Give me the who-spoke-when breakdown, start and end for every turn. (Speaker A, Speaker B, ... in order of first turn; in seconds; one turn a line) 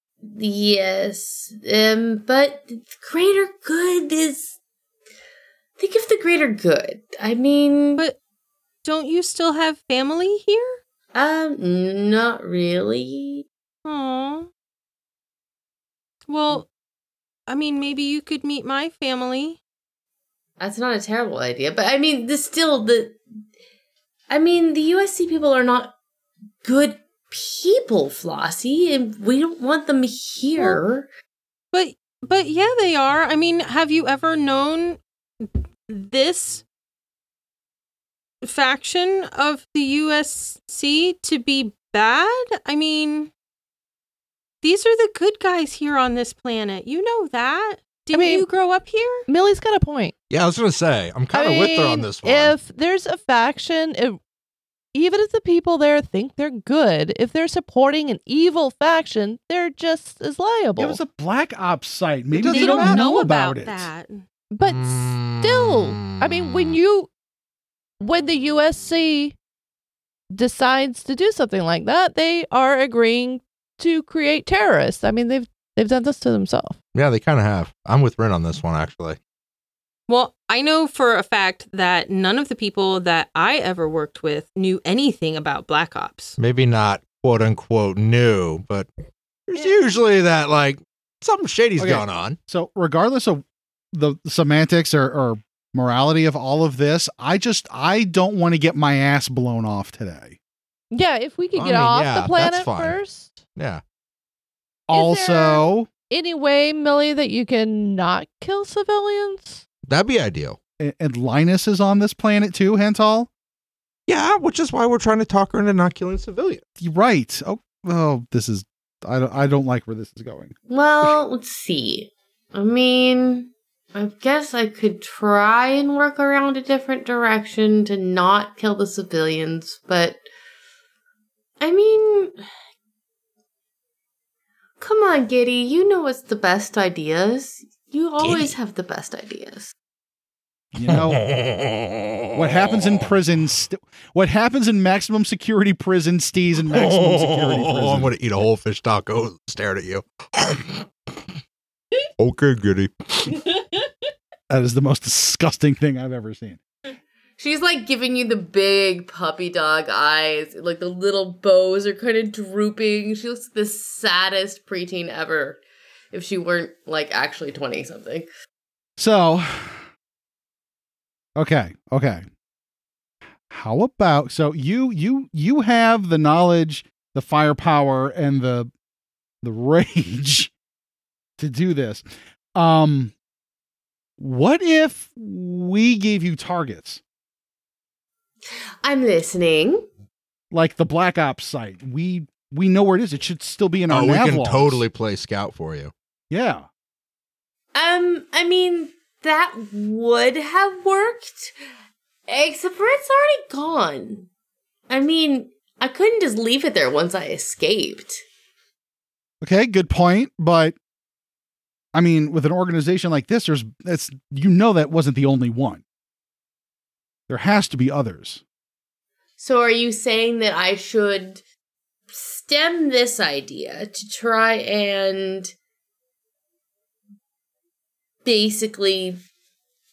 Speaker A: 0.2-4.5
Speaker A: 5.8-8.0
Speaker B: 8.8-10.8
Speaker A: 11.2-13.4
Speaker B: 13.8-14.5
Speaker B: 16.3-16.7
Speaker B: 17.5-19.6
Speaker A: 20.6-23.2
Speaker A: 24.3-25.9
Speaker A: 26.6-31.1
Speaker B: 31.7-36.6
Speaker B: 38.4-43.3
Speaker B: 44.6-49.2
Speaker C: 48.1-48.5
Speaker C: 49.3-50.1
Speaker D: 50.3-52.5
Speaker C: 51.3-54.2
Speaker C: 54.9-61.0
Speaker E: 60.8-63.9
Speaker D: 62.4-63.0
Speaker B: 62.5-64.2
Speaker C: 64.5-67.1
Speaker D: 64.6-66.8
Speaker C: 68.0-69.4
Speaker C: 70.3-76.8
Speaker D: 76.9-79.2
Speaker B: 80.1-86.4
Speaker D: 86.4-88.9
Speaker D: 89.5-92.4
Speaker E: 91.8-100.4
Speaker C: 100.9-103.4
Speaker D: 101.5-103.0
Speaker D: 103.6-103.8
Speaker E: 104.9-105.9
Speaker C: 104.9-109.6
Speaker D: 109.9-110.6
Speaker E: 110.8-113.3
Speaker D: 114.1-116.6
Speaker E: 116.8-121.2
Speaker A: 120.7-130.2
Speaker A: 131.6-132.3
Speaker A: 134.8-139.7
Speaker D: 138.2-138.5
Speaker E: 140.8-141.2
Speaker D: 140.8-143.0
Speaker E: 142.3-148.1
Speaker D: 146.7-150.8
Speaker D: 152.2-153.4
Speaker E: 154.5-156.6
Speaker A: 157.4-165.6
Speaker A: 166.1-168.3
Speaker E: 169.0-169.8
Speaker E: 171.4-172.3
Speaker E: 173.5-178.7
Speaker E: 179.4-180.5
Speaker E: 181.4-182.0
Speaker E: 182.6-183.1
Speaker E: 184.2-187.0
Speaker A: 188.8-189.9
Speaker E: 190.5-194.8
Speaker D: 193.9-195.9
Speaker E: 196.3-196.7
Speaker A: 197.7-201.6
Speaker A: 202.3-204.3
Speaker A: 204.9-208.2
Speaker E: 209.4-210.8
Speaker E: 211.9-215.8
Speaker E: 217.3-218.4
Speaker A: 219.4-221.4
Speaker A: 222.1-225.5
Speaker A: 228.2-229.2